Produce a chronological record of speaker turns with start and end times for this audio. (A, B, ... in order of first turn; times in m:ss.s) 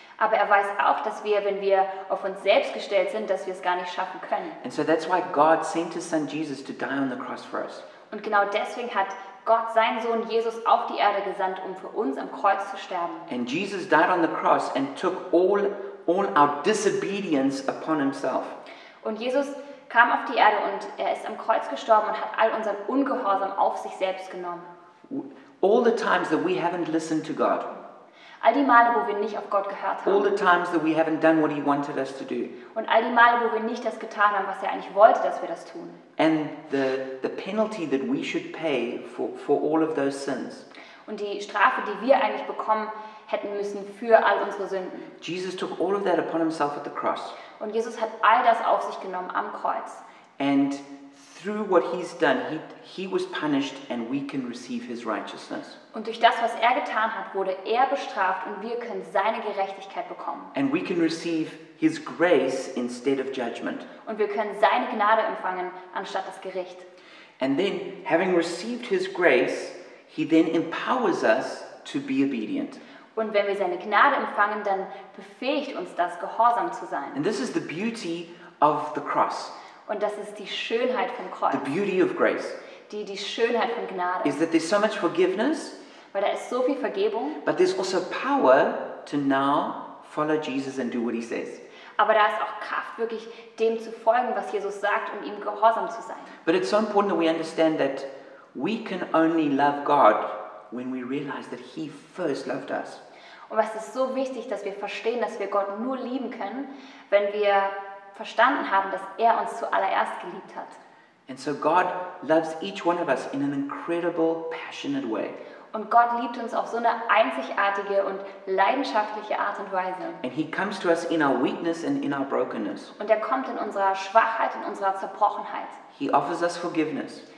0:00.2-0:04.6 A
0:04.6-0:07.8 B
0:08.1-0:13.3 A
0:13.3-0:18.6 B
0:19.0-0:24.7 A
0:25.1-0:27.7 B
0:28.4-0:30.4 A
0:30.1-0:32.5 B
0:32.7-0:36.0 A
0:36.2-0:40.6 B
0:41.1-0:45.1 A
0:45.2-0:47.4 B
0:47.6-0:50.0 A
0:50.4-0:55.8 B
0:55.9-1:00.5 A
1:00.5-1:03.9 B
1:04.0-1:06.9 A
1:07.4-1:12.8 B
1:13.2-1:17.2 A
1:17.2-1:19.5 B
1:19.9-1:21.6 A
1:21.5-1:22.6 B
1:22.9-1:24.4 A
1:24.2-1:25.8 B
1:26.1-1:27.4 A
1:27.4-1:31.6 B
1:32.0-1:36.4 A
1:36.5-1:43.0 B
1:43.5-1:50.8 A
1:51.3-1:55.4 B
1:55.7-2:00.2 A
2:00.2-2:02.9 B
2:03.0-2:05.8 A
2:05.9-2:07.2 B